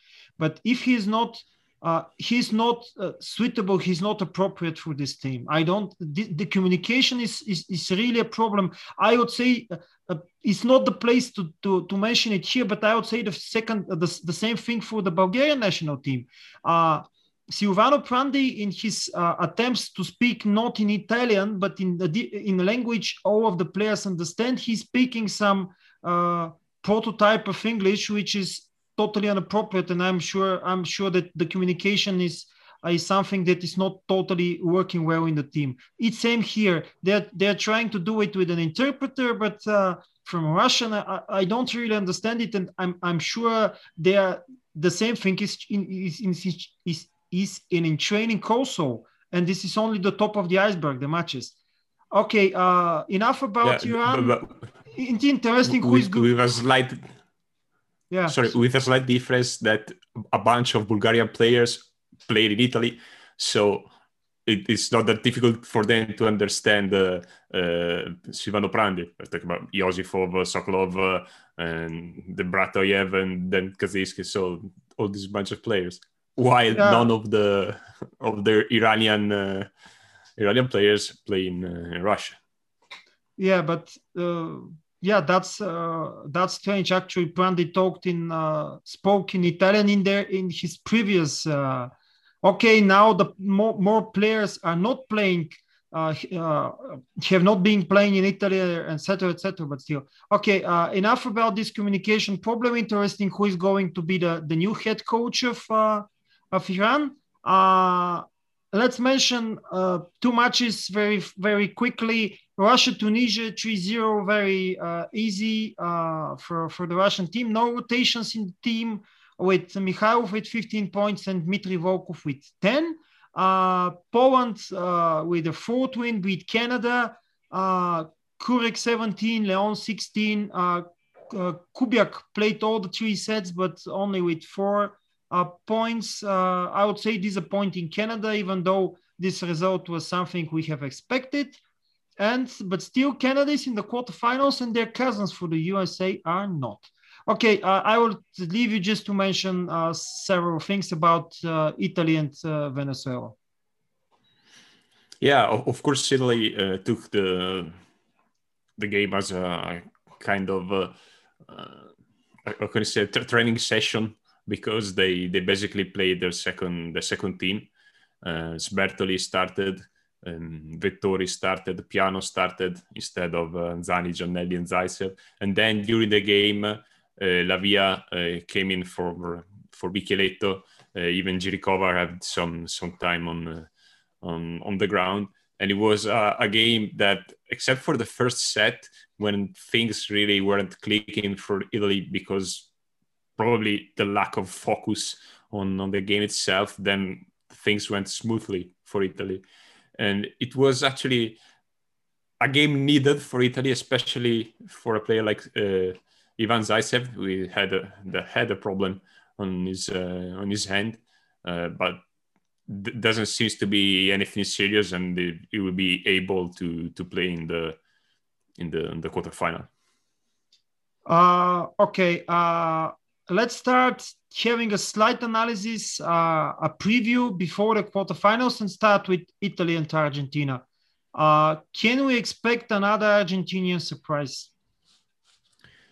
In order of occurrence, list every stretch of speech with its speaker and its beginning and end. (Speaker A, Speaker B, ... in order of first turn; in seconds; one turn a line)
Speaker A: 0.4-51.6
Speaker A: 52.1-54.4
Speaker B: 53.6-54.6
Speaker A: 54.9-56.3
Speaker B: 55.6-57.0
Speaker A: 58.1-58.5
Speaker B: 58.3-63.9
Speaker B: 64.5-79.7
Speaker A: 76.7-77.1
Speaker B: 80.4-82.4
Speaker A: 83.4-91.9
Speaker A: 92.4-141.6
Speaker A: 142.2-153.4
Speaker B: 155.2-157.7
Speaker B: 158.8-160.9
Speaker B: 161.5-161.9
Speaker B: 162.4-167.7
Speaker B: 168.2-183.7
Speaker B: 184.2-192.7
Speaker B: 193.4-199.4
Speaker B: 200.0-201.4
Speaker B: 202.4-212.0
Speaker B: 212.7-217.8
Speaker B: 218.6-219.7
Speaker A: 221.1-230.6
Speaker A: 231.2-234.5